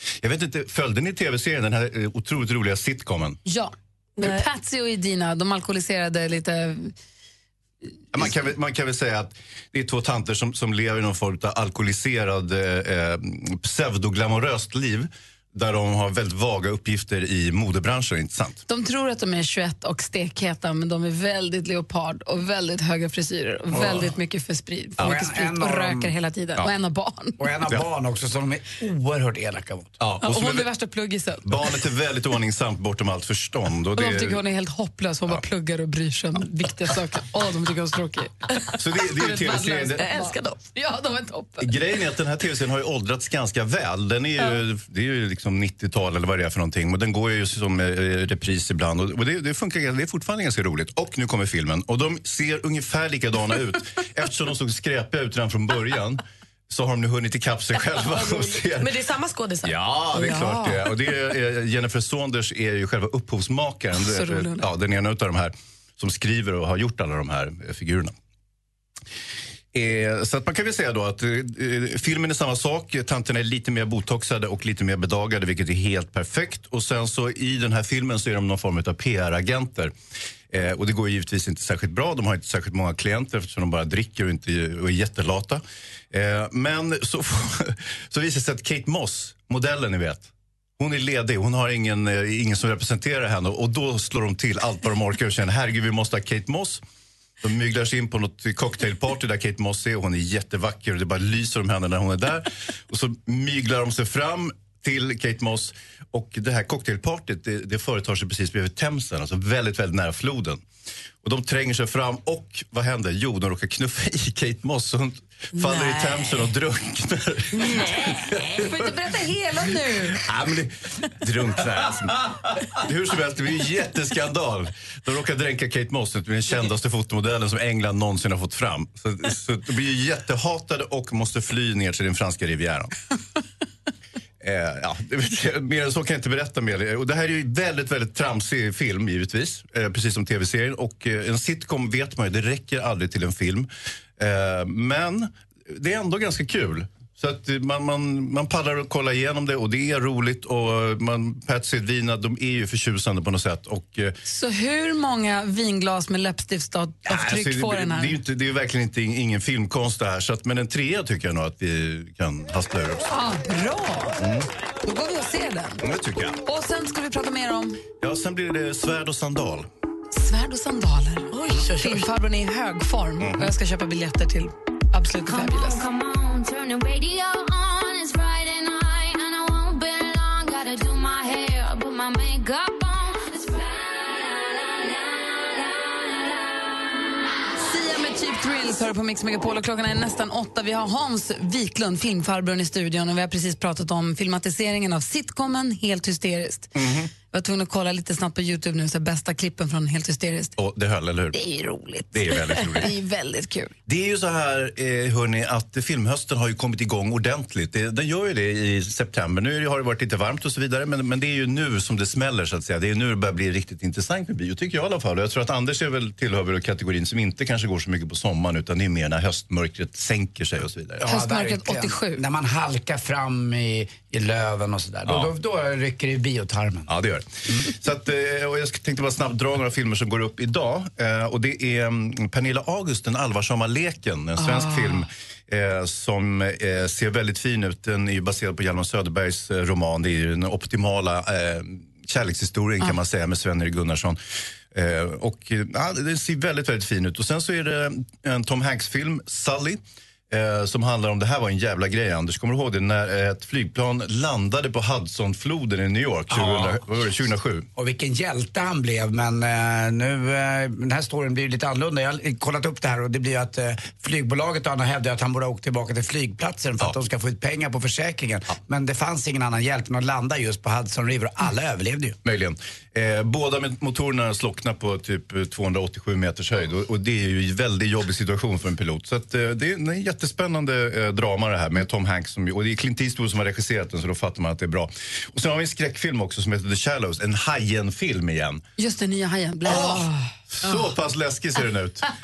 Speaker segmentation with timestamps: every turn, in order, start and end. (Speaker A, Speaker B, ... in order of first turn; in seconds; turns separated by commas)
Speaker A: 0.2-3.4, Speaker B: 3.5-6.9, Speaker C: 4.2-4.4, Speaker A: 8.1-18.6, Speaker B: 18.7-27.4, Speaker D: 25.0-26.1, Speaker D: 27.4-30.0, Speaker A: 30.0-30.7, Speaker B: 30.2-31.5, Speaker A: 31.4-34.4, Speaker B: 34.0-38.5, Speaker A: 38.8-40.1, Speaker B: 39.2-41.7, Speaker C: 39.5-40.6, Speaker A: 41.6-59.0, Speaker C: 57.9-60.9, Speaker A: 59.6-68.2, Speaker B: 64.0-64.7, Speaker A: 69.7-79.9, Speaker A: 80.5-96.8, Speaker A: 97.4-110.6, Speaker A: 111.2-118.9, Speaker C: 115.6-116.5, Speaker C: 117.6-118.1, Speaker B: 118.6-120.2, Speaker A: 120.3-122.2, Speaker A: 122.8-132.9, Speaker A: 134.4-154.2, Speaker B: 154.2-158.2, Speaker A: 157.1-163.1, Speaker B: 163.1-164.2, Speaker A: 164.2-164.5, Speaker B: 164.8-165.8, Speaker A: 165.8-166.4, Speaker B: 166.5-167.8, Speaker A: 168.0-169.7, Speaker B: 170.1-175.9, Speaker C: 171.3-172.1, Speaker A: 173.2-173.5, Speaker E: 175.5-184.9, Speaker B: 187.6-196.7, Speaker A: 196.8-197.1, Speaker B: 197.3-200.5, Speaker A: 200.6-201.4, Speaker B: 201.3-203.8, Speaker A: 202.1-202.9, Speaker A: 203.9-221.0, Speaker D: 221.0-226.9, Speaker B: 221.1-222.2, Speaker A: 225.1-225.3, Speaker A: 226.9-244.2, Speaker B: 234.4-235.0, Speaker A: 244.7-257.7, Speaker D: 256.3-256.8, Speaker D: 257.8-272.2, Speaker A: 272.2-288.6, Speaker B: 288.8-290.1, Speaker A: 289.6-292.1